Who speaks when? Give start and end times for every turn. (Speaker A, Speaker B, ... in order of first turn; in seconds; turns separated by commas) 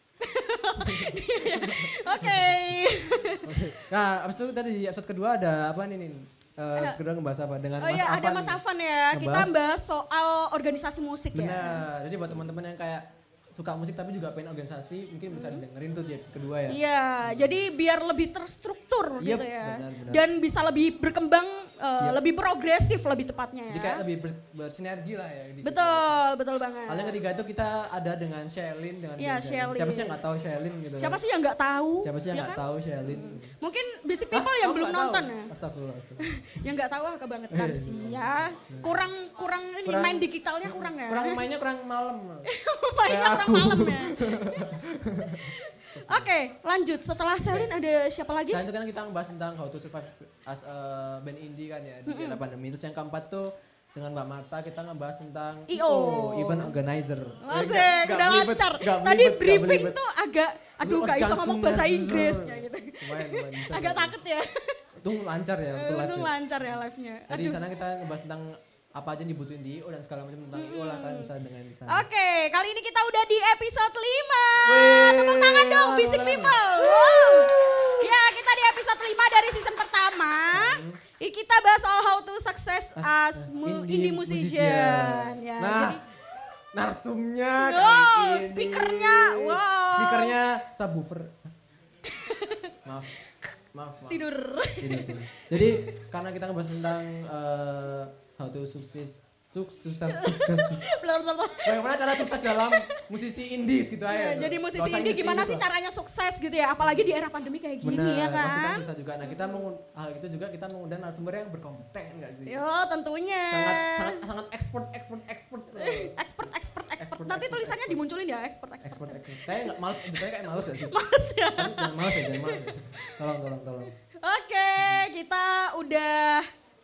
Speaker A: 0.2-3.5, Speaker B: 0.8-2.4, Speaker B: 3.4-8.6, Speaker A: 7.8-11.8, Speaker B: 9.1-9.5, Speaker B: 11.3-17.6, Speaker A: 15.3-15.6, Speaker A: 16.7-24.0, Speaker B: 19.2-20.2, Speaker B: 23.7-26.1, Speaker A: 25.6-27.2, Speaker B: 26.9-31.2, Speaker A: 29.2-30.2, Speaker A: 31.0-35.5, Speaker B: 32.0-33.5, Speaker B: 34.3-36.6, Speaker A: 36.2-41.4, Speaker B: 37.5-39.0, Speaker B: 39.9-42.5, Speaker A: 42.5-44.7, Speaker B: 43.1-46.3, Speaker A: 45.4-48.6, Speaker B: 48.5-60.0, Speaker A: 52.1-52.4, Speaker A: 55.7-56.8, Speaker A: 57.4-64.8, Speaker B: 60.8-64.1, Speaker B: 65.0-66.8, Speaker A: 65.7-67.7, Speaker B: 67.3-72.0, Speaker A: 70.5-71.3, Speaker A: 71.9-86.0, Speaker B: 74.6-78.1, Speaker B: 80.5-81.0, Speaker B: 83.0-86.0, Speaker B: 86.7-91.5, Speaker A: 87.6-90.4, Speaker A: 92.1-92.7, Speaker B: 92.8-93.1, Speaker B: 93.7-94.2, Speaker A: 94.1-96.0, Speaker B: 94.8-100.8, Speaker A: 100.1-103.0, Speaker B: 101.6-105.6, Speaker A: 104.1-109.6, Speaker B: 106.8-107.0, Speaker B: 107.8-112.6, Speaker A: 112.5-114.2, Speaker B: 113.5-116.2, Speaker A: 115.7-123.2, Speaker B: 117.0-118.0, Speaker B: 118.8-121.0, Speaker B: 121.5-123.9, Speaker A: 124.2-126.5, Speaker B: 124.8-125.0